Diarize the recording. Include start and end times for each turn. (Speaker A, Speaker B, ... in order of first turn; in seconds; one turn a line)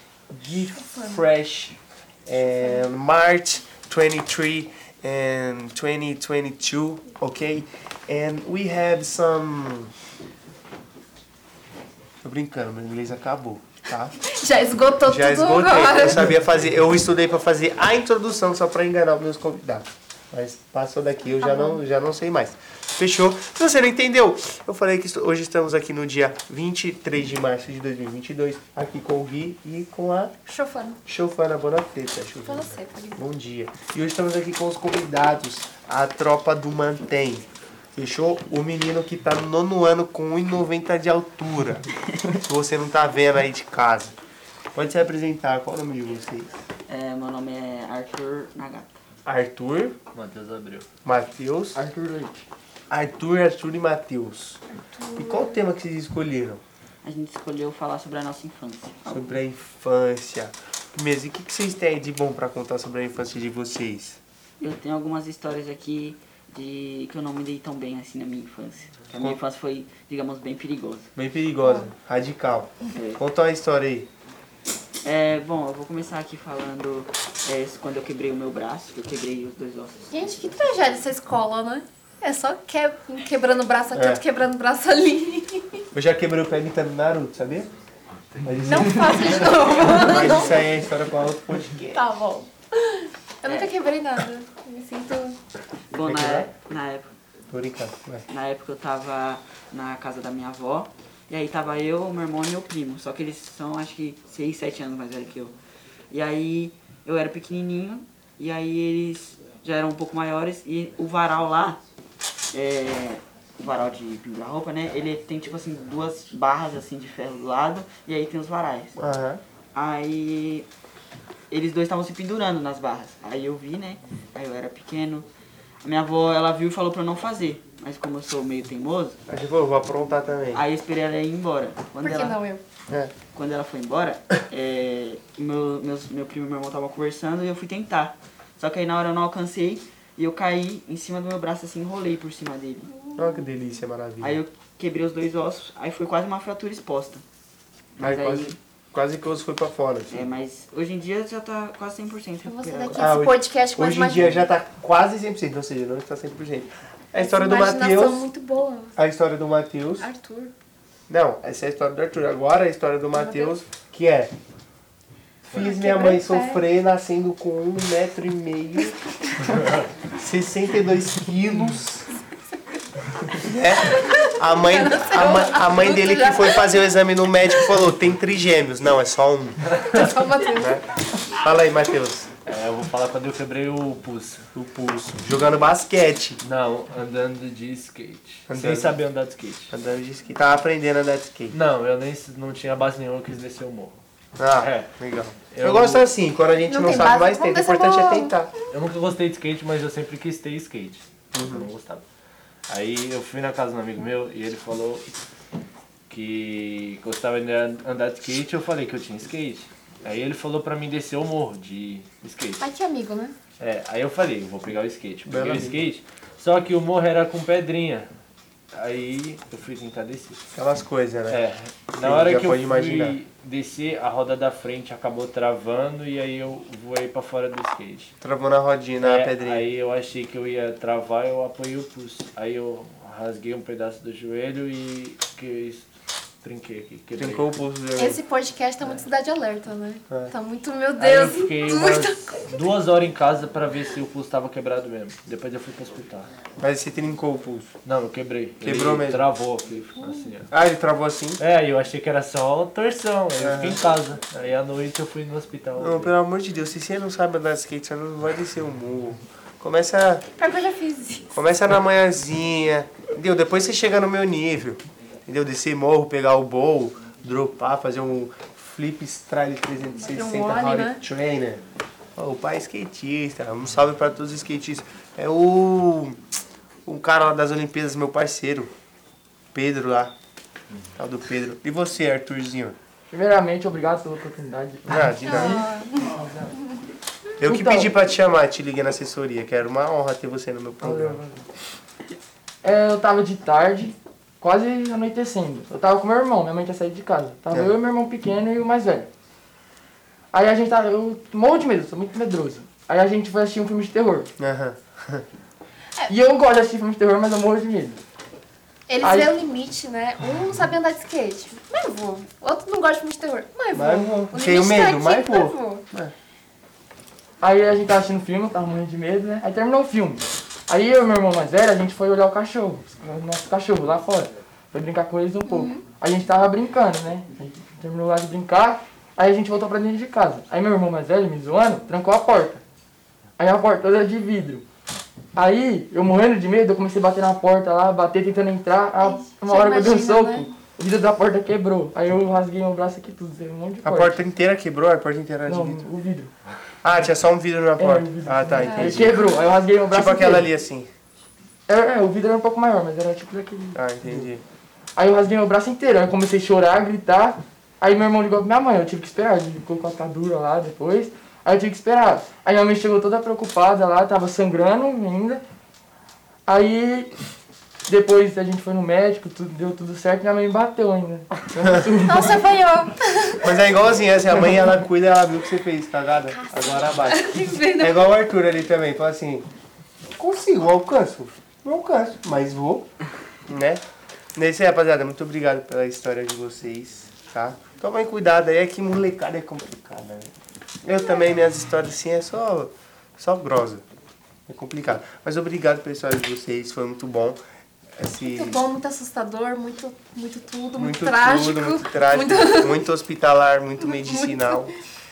Speaker A: 0.3-9.9
Speaker B: 0.8-1.2
Speaker A: 12.2-14.1
Speaker B: 14.2-16.3
Speaker A: 15.0-30.4
Speaker B: 21.4-21.8
Speaker B: 30.5-31.0
Speaker A: 31.1-44.1
Speaker B: 32.4-33.3
Speaker A: 44.7-46.5
Speaker C: 46.9-48.9
Speaker A: 49.2-50.0
Speaker D: 50.1-50.9
Speaker A: 51.0-51.8
Speaker E: 51.7-52.4
Speaker A: 52.9-54.6
Speaker B: 54.9-55.5
Speaker A: 55.1-56.6
Speaker C: 57.0-59.2
Speaker A: 59.1-64.2
Speaker C: 64.6-71.1
Speaker A: 71.2-74.1
Speaker C: 75.0-80.1
Speaker B: 80.1-85.8
Speaker A: 83.9-84.2
Speaker A: 85.9-87.7
Speaker A: 88.4-92.0
Speaker B: 88.6-90.6
Speaker C: 89.8-90.4
Speaker B: 91.9-95.4
Speaker C: 93.5-93.7
Speaker C: 95.9-97.1
Speaker A: 96.0-96.5
Speaker A: 97.5-98.3
Speaker C: 98.3-105.5
Speaker C: 106.1-111.8
Speaker C: 112.5-118.9
Speaker A: 119.0-119.4
Speaker C: 119.7-120.7
Speaker C: 121.5-125.3
Speaker C: 125.8-129.2
Speaker A: 129.3-130.6
Speaker C: 130.5-132.4
Speaker B: 132.0-132.6
Speaker C: 133.3-142.9
Speaker A: 143.2-144.4
Speaker C: 144.2-147.2
Speaker C: 148.0-148.6
Speaker A: 148.0-150.2
Speaker C: 150.1-153.1
Speaker B: 152.4-154.5
Speaker A: 152.9-158.2
Speaker B: 157.1-158.9
Speaker A: 159.0-160.1
Speaker B: 160.0-160.5
Speaker A: 161.1-164.3
Speaker B: 163.1-163.5
Speaker B: 165.5-166.6
Speaker A: 165.5-169.0
Speaker A: 170.1-172.1
Speaker A: 173.4-179.7
Speaker B: 174.0-176.8
Speaker B: 179.8-180.8
Speaker D: 180.0-180.3
Speaker A: 180.6-182.3
Speaker D: 182.5-184.4
Speaker A: 184.6-186.4
Speaker D: 186.4-189.7
Speaker A: 188.5-189.0
Speaker A: 189.7-191.6
Speaker D: 191.5-194.0
Speaker A: 194.4-198.5
Speaker D: 194.5-194.9
Speaker D: 195.5-196.1
Speaker B: 196.7-198.4
Speaker D: 198.7-202.0
Speaker A: 201.3-201.7
Speaker D: 202.7-205.1
Speaker D: 206.1-212.7
Speaker B: 212.6-213.3
Speaker D: 213.6-218.1
Speaker A: 215.2-215.8
Speaker D: 218.7-220.4
Speaker A: 220.5-221.4
Speaker D: 221.3-228.1
Speaker A: 221.9-223.2
Speaker A: 228.2-229.7
Speaker D: 229.0-235.9
Speaker D: 236.4-237.5
Speaker A: 237.2-238.2
Speaker B: 238.0-242.6
Speaker D: 241.0-246.3
Speaker A: 246.6-247.7
Speaker D: 247.8-250.5
Speaker A: 248.6-249.2
Speaker A: 250.5-251.4
Speaker D: 251.4-256.1
Speaker A: 253.4-253.8
Speaker A: 255.8-260.3
Speaker B: 260.4-261.3
Speaker A: 261.4-271.6
Speaker B: 270.0-271.0
Speaker A: 272.2-276.2
Speaker A: 276.9-278.7
Speaker A: 279.5-280.1
Speaker A: 280.9-282.8
Speaker E: 283.1-286.5
Speaker A: 284.9-285.7
Speaker B: 285.2-286.1
Speaker A: 287.4-291.2
Speaker E: 287.4-287.9
Speaker E: 290.8-291.4
Speaker E: 292.6-299.1
Speaker E: 300.3-304.3
Speaker A: 304.4-305.2
Speaker E: 306.1-308.0
Speaker B: 308.9-315.8
Speaker E: 309.0-309.3
Speaker A: 313.7-316.1
Speaker E: 317.4-332.6
Speaker B: 325.4-325.8
Speaker E: 333.4-334.6
Speaker E: 335.4-344.2
Speaker B: 339.0-340.6
Speaker A: 343.8-345.9
Speaker E: 345.5-346.3
Speaker A: 346.8-349.2
Speaker E: 347.8-350.5
Speaker B: 348.6-349.4
Speaker A: 349.9-350.9
Speaker E: 351.7-354.3
Speaker A: 353.8-354.4
Speaker E: 355.0-365.4
Speaker E: 366.5-367.1
Speaker E: 367.9-372.4
Speaker B: 372.0-373.6
Speaker A: 373.4-379.5
Speaker B: 376.4-378.1
Speaker A: 380.2-382.9
Speaker A: 383.5-383.8
Speaker A: 384.4-390.3
Speaker A: 390.8-393.8
Speaker A: 394.5-397.4
Speaker A: 398.0-398.6
Speaker B: 398.2-402.8
Speaker A: 400.8-404.7
Speaker B: 403.8-404.6